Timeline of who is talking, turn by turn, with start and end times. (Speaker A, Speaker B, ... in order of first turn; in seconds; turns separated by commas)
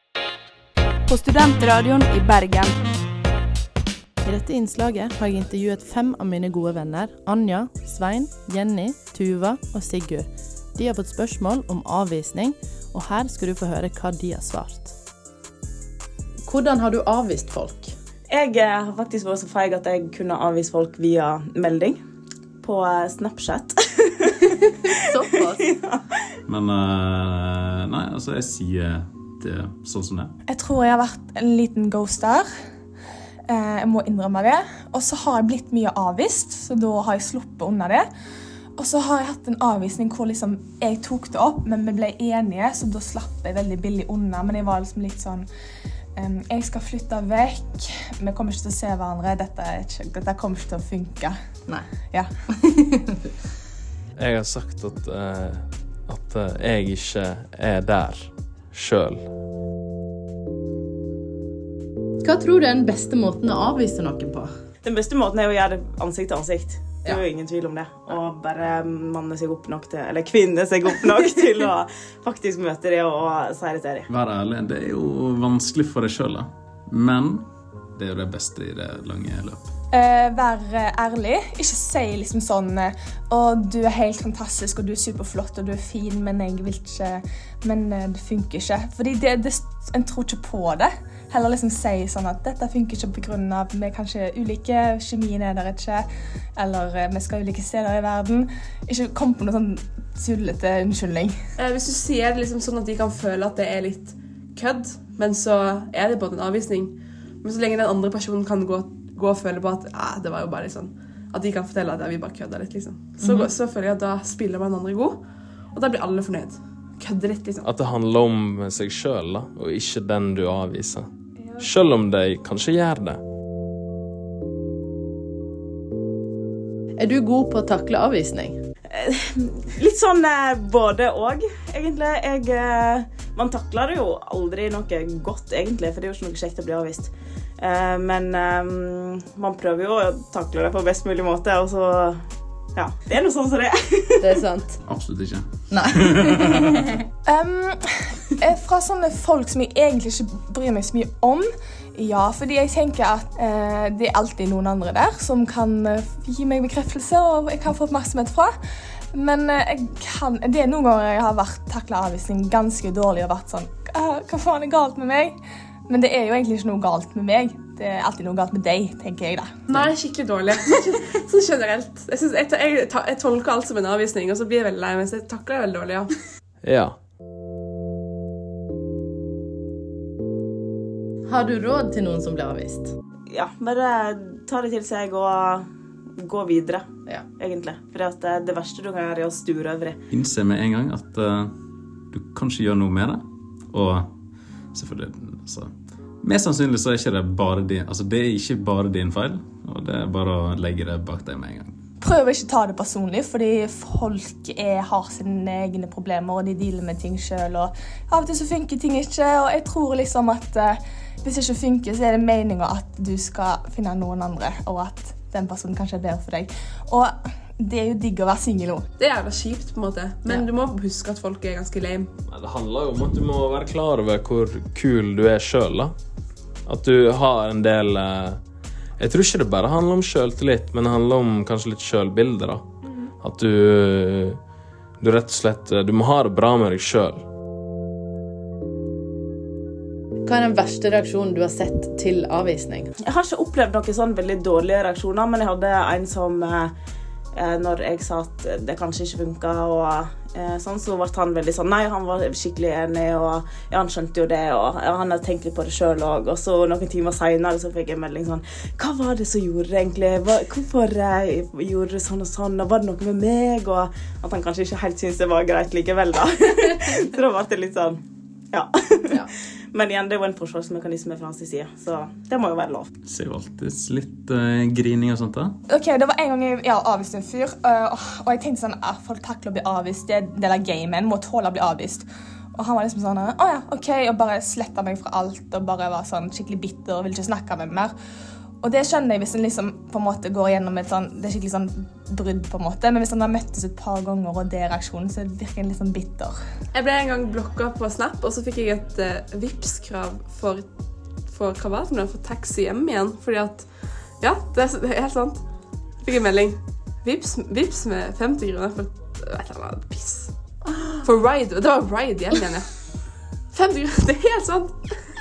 Speaker A: 1.3-2.6, Speaker B: 4.2-14.9, Speaker B: 16.4-17.9, Speaker C: 18.3-22.0, Speaker C: 22.6-24.7, Speaker B: 25.0-25.6, Speaker C: 25.6-26.0, Speaker D: 26.5-30.3, Speaker A: 30.5-32.5, Speaker A: 33.5-38.1, Speaker A: 38.8-45.5, Speaker A: 46.1-51.4, Speaker B: 52.6-53.1, Speaker E: 54.2-59.2, Speaker B: 62.2-64.5, Speaker C: 64.8-74.1, Speaker D: 74.1-79.7, Speaker A: 79.9-101.4, Speaker F: 101.6-115.2, Speaker F: 115.7-117.7, Speaker E: 117.6-121.1, Speaker E: 121.6-123.2, Speaker B: 127.0-128.6, Speaker C: 128.9-142.2, Speaker C: 142.8-144.4, Speaker B: 144.2-144.8, Speaker D: 144.8-146.8, Speaker B: 145.7-146.6, Speaker A: 147.2-158.5, Speaker A: 159.1-165.3, Speaker A: 165.9-169.6, Speaker F: 169.7-176.1, Speaker E: 176.6-177.0, Speaker B: 181.3-182.9, Speaker C: 183.3-185.7, Speaker C: 186.2-190.0, Speaker D: 190.1-191.6, Speaker D: 192.1-194.1, Speaker D: 194.7-201.8, Speaker A: 202.0-218.9, Speaker F: 219.0-222.1, Speaker E: 222.3-225.9, Speaker E: 226.7-228.4, Speaker E: 229.0-232.7, Speaker E: 233.2-234.4, Speaker E: 235.0-237.2, Speaker B: 240.2-242.9, Speaker C: 243.0-246.7, Speaker C: 247.3-272.9, Speaker D: 273.0-275.6, Speaker A: 275.7-287.9, Speaker A: 288.6-296.4, Speaker F: 296.7-300.7, Speaker F: 301.3-303.7, Speaker F: 304.2-305.4, Speaker F: 306.0-310.3, Speaker F: 311.0-312.7, Speaker F: 313.5-314.8